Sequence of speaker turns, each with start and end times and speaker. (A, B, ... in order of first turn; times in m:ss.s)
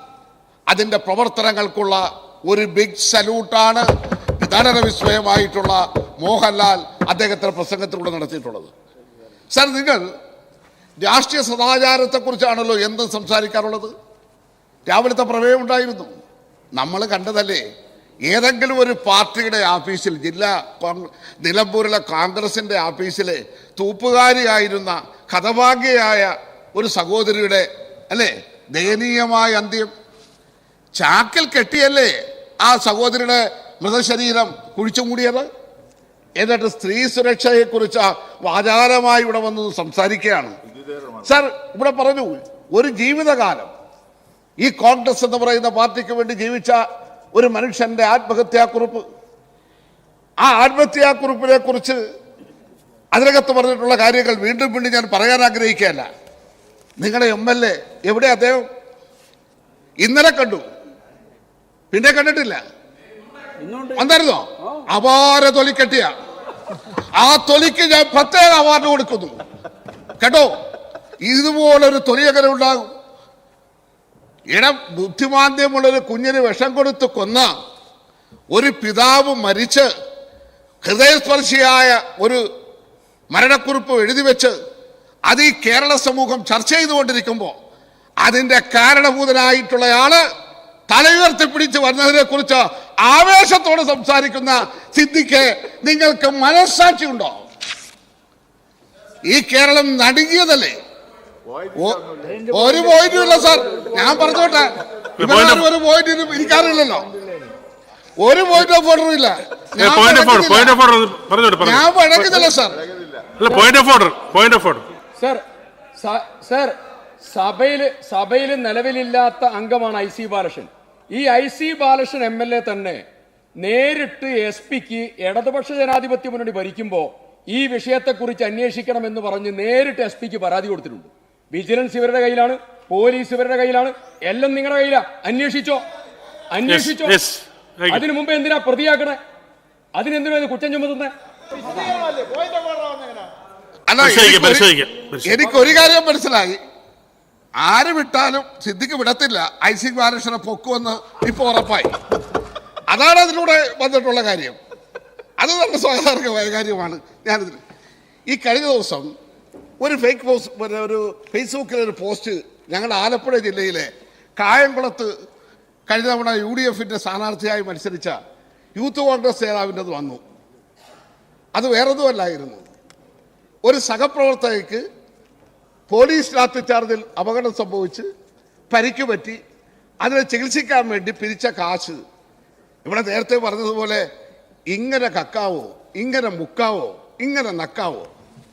0:00.7-0:03.8 A
0:04.4-0:08.7 A
0:09.5-0:10.0 A
0:11.0-0:13.9 A
0:14.9-0:16.1 A
0:16.8-0:17.6 A
0:18.3-0:29.9 A
0:31.0-0:35.4 A
0:36.4-0:40.5 A
0:41.2-0:43.7 A
0:44.6-0:46.8 A
0:47.3-0:49.0 A
0:50.4-0:52.0 A
0:53.1-0:56.0 A
0:57.0-0:58.6 A
1:00.0-1:00.6 A
1:01.9-1:02.6 A
1:03.9-1:06.1 A
1:07.1-1:09.4 A
1:10.2-1:10.5 A
1:11.2-1:12.9 A
1:14.5-1:17.5 A
1:18.5-1:19.9 A
1:20.8-1:22.4 A
1:23.3-1:24.5 A
1:25.3-1:27.5 A
1:28.2-1:30.2 A
1:30.9-1:37.4 A
1:39.3-1:40.7 A
1:41.8-1:47.1 A
1:45.2-1:45.7 B
1:48.2-1:50.8 A
1:49.8-1:52.4 B
1:51.6-1:52.8 A
1:53.4-1:54.8 B
1:55.2-1:55.4 C
1:56.0-2:03.0 C
2:03.6-2:15.8 C
2:16.5-2:17.2 C
2:16.6-2:18.0 B
2:17.9-2:19.2 C
2:19.9-2:21.1 C
2:23.9-2:24.7 A
2:24.0-2:25.4 B
2:25.2-2:26.6 A
2:27.6-2:31.9 A
2:32.9-2:34.6 A
2:35.4-2:37.6 A
2:38.3-2:39.1 A
2:39.8-2:45.1 A
2:45.9-2:48.2 A
2:48.8-2:50.2 A
2:51.5-2:52.6 A
2:53.6-2:54.8 A
2:55.9-2:58.0 A
2:58.7-2:59.4 A
3:00.0-3:02.0 A
3:02.8-3:04.0 A
3:04.7-3:08.1 A